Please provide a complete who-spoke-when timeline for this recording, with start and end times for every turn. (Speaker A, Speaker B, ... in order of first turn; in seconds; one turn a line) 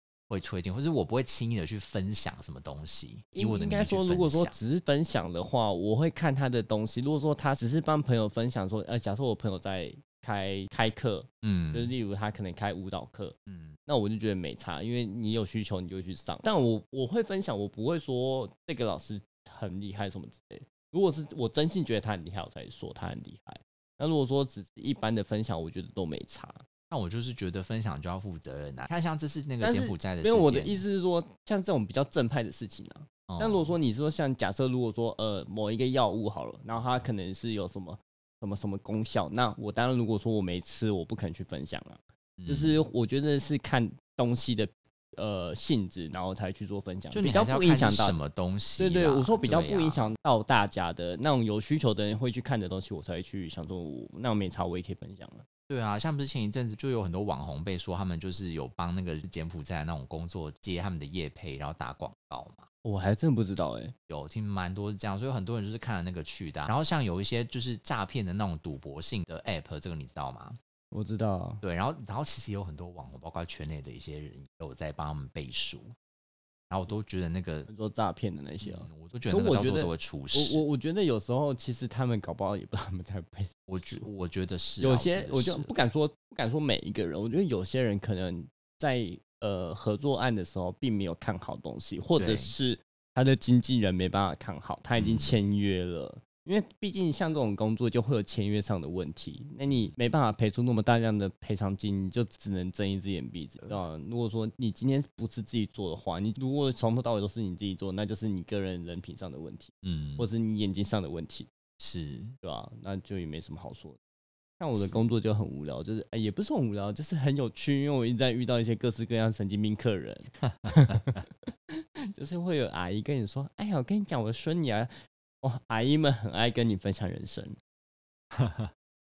Speaker A: 0.3-4.6
Speaker B: 3.3-26.6
Speaker A: 11.4-11.9
Speaker A: 13.5-13.8
Speaker A: 26.9-30.8
Speaker B: 29.6-48.2
Speaker A: 33.3-33.7
Speaker A: 42.4-42.8
Speaker A: 47.1-50.1
Speaker B: 48.8-55.4
Speaker A: 55.7-62.7
Speaker B: 62.8-63.9
Speaker A: 64.1-70.6
Speaker B: 70.9-71.6
Speaker A: 71.6-75.9
Speaker A: 76.7-77.7
Speaker B: 77.7-84.0
Speaker A: 78.6-80.6
Speaker A: 83.7-85.7
Speaker B: 84.8-111.5
Speaker A: 92.2-92.5
Speaker A: 95.0-95.3
Speaker A: 99.7-99.9
Speaker A: 109.8-110.3
Speaker A: 111.8-112.3
Speaker B: 112.4-114.0
Speaker B: 114.6-127.5
Speaker A: 114.7-115.0
Speaker A: 120.5-121.2
Speaker A: 128.3-128.7